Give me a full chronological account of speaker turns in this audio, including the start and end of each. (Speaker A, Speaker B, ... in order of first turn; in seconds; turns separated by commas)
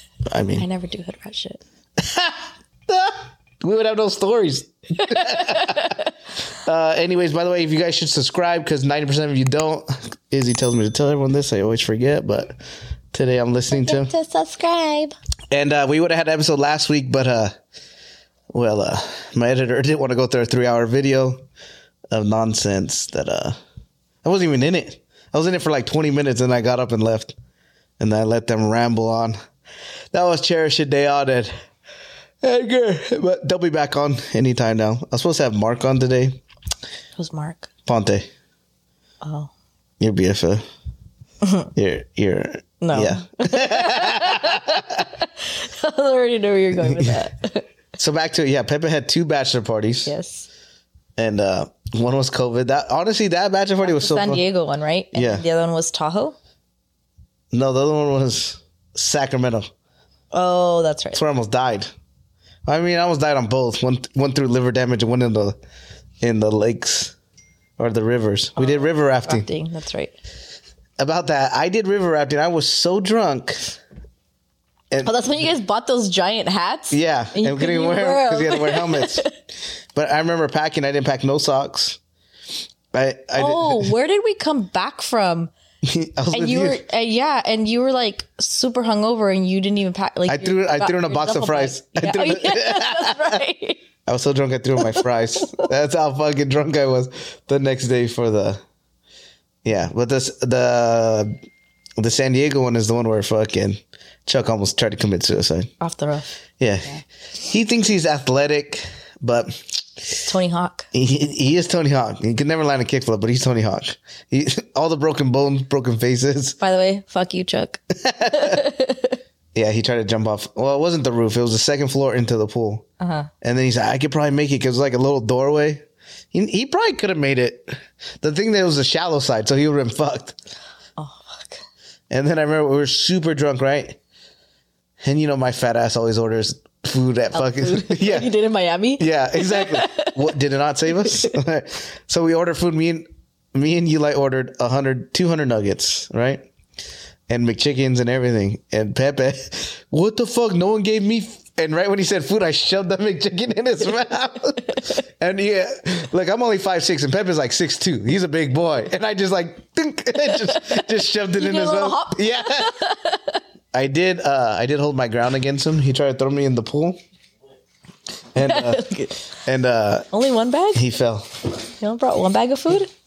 Speaker A: 0.3-0.7, Speaker B: 0.6-1.6, Speaker A: 2.0-6.0, Speaker B: 5.1-6.0, Speaker A: 6.6-12.6, Speaker A: 13.1-14.1, Speaker B: 13.7-15.1, Speaker A: 15.5-17.5, Speaker A: 18.5-21.4, Speaker A: 22.1-23.6, Speaker A: 24.2-27.4, Speaker A: 28.0-29.4, Speaker A: 30.1-31.5, Speaker A: 32.4-36.4, Speaker B: 37.2-37.7, Speaker A: 37.9-38.3, Speaker B: 39.2-39.5, Speaker A: 40.0-40.6, Speaker B: 41.4-41.7, Speaker A: 41.8-45.1, Speaker B: 42.8-47.7, Speaker A: 46.9-47.2, Speaker A: 48.0-50.1, Speaker B: 50.1-50.5, Speaker A: 51.2-54.4, Speaker B: 53.8-56.4, Speaker A: 55.1-55.5, Speaker A: 57.5-59.7, Speaker B: 60.3-61.2, Speaker A: 61.1-61.9, Speaker A: 62.7-65.6, Speaker A: 66.2-67.1, Speaker A: 67.8-69.5, Speaker B: 68.6-70.2, Speaker A: 71.0-73.8, Speaker B: 75.0-79.3, Speaker A: 76.9-79.3, Speaker A: 79.9-82.0, Speaker A: 82.9-83.9, Speaker B: 83.3-85.5, Speaker A: 85.8-86.8, Speaker B: 86.3-93.8, Speaker A: 90.3-93.4, Speaker A: 94.1-98.6, Speaker B: 94.8-95.6, Speaker A: 99.6-101.4, Speaker A: 102.0-105.7, Speaker B: 105.8-106.3, Speaker A: 106.6-106.9, Speaker A: 107.4-110.1, Speaker B: 110.2-110.9, Speaker A: 110.9-116.6, Speaker B: 116.6-119.2, Speaker A: 118.0-118.7, Speaker A: 119.5-122.9, Speaker B: 123.0-123.3, Speaker A: 123.4-130.4, Speaker B: 131.0-131.6, Speaker A: 132.1-134.0, Speaker A: 135.0-138.3, Speaker B: 137.3-140.3, Speaker A: 139.0-146.5, Speaker B: 140.9-141.4, Speaker A: 147.3-162.8, Speaker B: 160.2-163.4, Speaker A: 163.7-167.0, Speaker A: 168.3-168.9, Speaker B: 168.4-169.2, Speaker A: 169.4-170.1, Speaker B: 170.1-170.9, Speaker A: 170.7-171.3, Speaker B: 171.8-172.9